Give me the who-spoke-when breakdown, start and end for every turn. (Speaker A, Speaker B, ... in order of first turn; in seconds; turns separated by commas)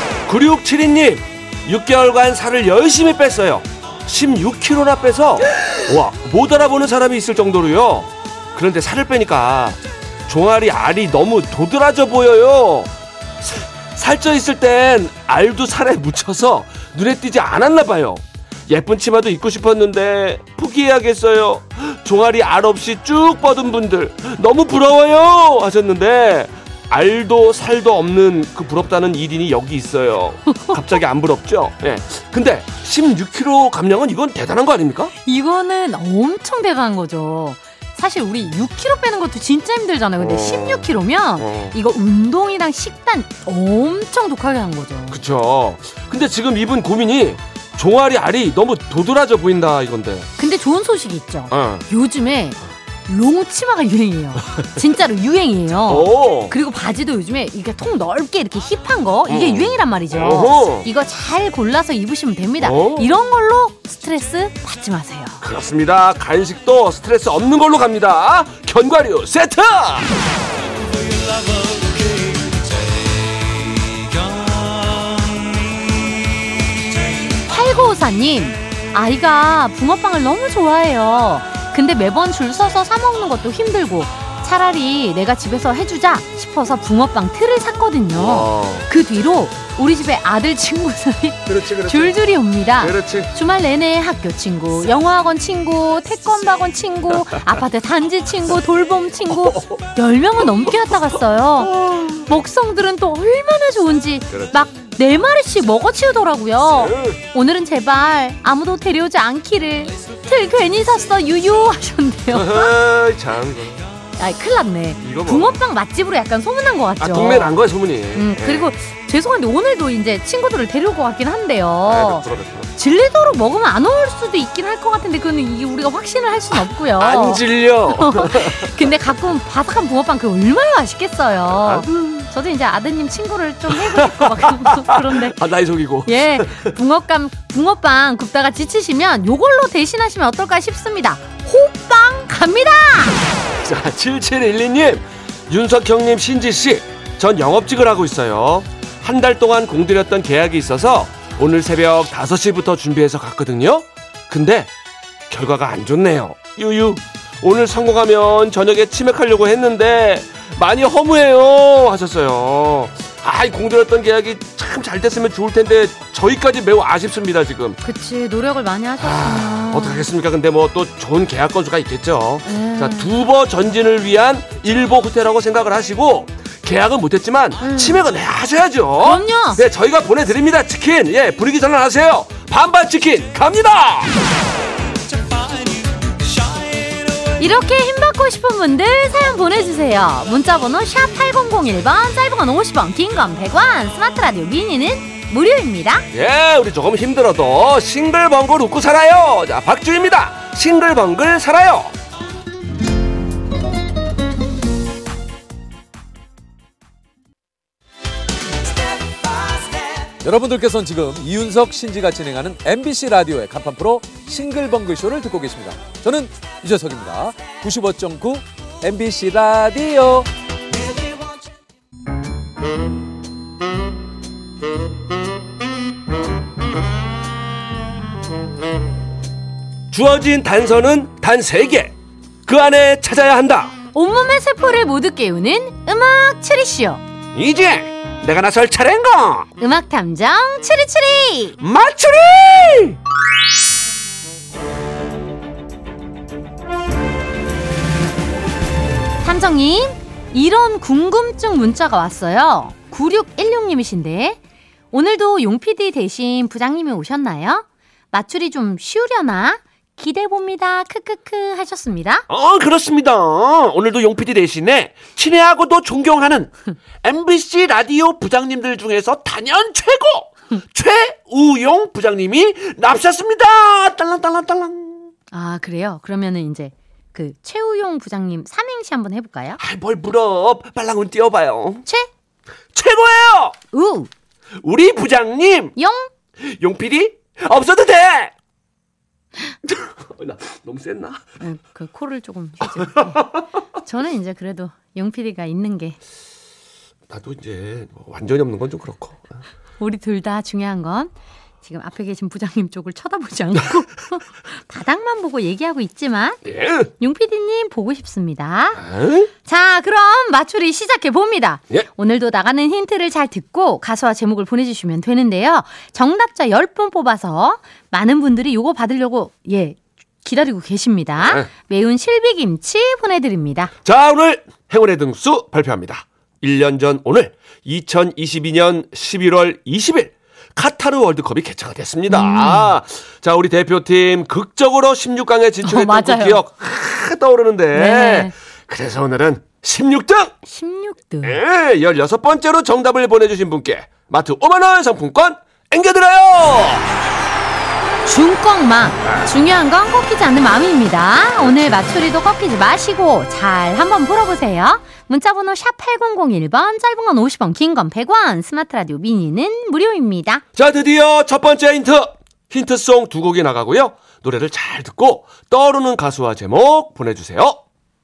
Speaker A: 0.3-35.1, Speaker B: 35.2-45.2, Speaker A: 40.2-40.9, Speaker A: 41.4-41.8, Speaker A: 45.1-50.3, Speaker B: 50.4-65.4, Speaker A: 51.5-51.9, Speaker A: 55.9-56.5, Speaker A: 59.3-60.9, Speaker A: 62.6-63.1, Speaker A: 65.4-70.1, Speaker B: 77.5-112.7, Speaker A: 88.1-88.9, Speaker A: 91.5-92.2, Speaker A: 92.8-93.3, Speaker A: 101.7-102.3, Speaker A: 104.3-104.7, Speaker A: 106.8-107.2, Speaker A: 112.3-113.8, Speaker B: 114.2-117.5, Speaker A: 115.0-115.6, Speaker A: 117.0-118.7, Speaker B: 118.2-135.4, Speaker A: 121.8-122.7, Speaker A: 127.0-128.8, Speaker A: 131.5-132.3, Speaker A: 133.7-136.8, Speaker B: 136.1-143.2, Speaker A: 143.6-154.7, Speaker A: 155.3-167.8, Speaker B: 167.8-170.1, Speaker A: 169.0-184.1, Speaker B: 172.4-173.1, Speaker B: 177.6-178.0, Speaker B: 179.0-179.6, Speaker B: 187.4-196.1, Speaker A: 196.1-201.9, Speaker C: 210.2-220.3, Speaker A: 229.9-231.9, Speaker A: 232.5-233.7, Speaker B: 233.9-237.0, Speaker A: 237.3-239.5, Speaker B: 239.6-241.6, Speaker A: 241.6-243.0, Speaker B: 249.2-254.4, Speaker B: 254.9-262.2, Speaker A: 262.3-266.5, Speaker A: 267.0-275.1, Speaker B: 275.3-279.6, Speaker A: 279.6-281.9, Speaker A: 282.7-283.5, Speaker B: 283.7-284.1, Speaker A: 284.6-285.7, Speaker B: 285.8-286.1, Speaker A: 286.4-288.3, Speaker A: 289.6-291.2, Speaker B: 291.4-296.0, Speaker A: 292.8-293.2, Speaker A: 297.1-299.4, Speaker B: 299.8-308.8, Speaker A: 306.5-306.9, Speaker A: 308.8-309.3, Speaker B: 309.4-323.7, Speaker A: 321.2-321.5, Speaker A: 323.8-340.4, Speaker B: 332.1-332.7, Speaker B: 335.6-336.4, Speaker B: 337.7-338.3, Speaker B: 340.5-341.4, Speaker A: 341.2-346.9, Speaker B: 348.1-360.4, Speaker A: 360.6-367.6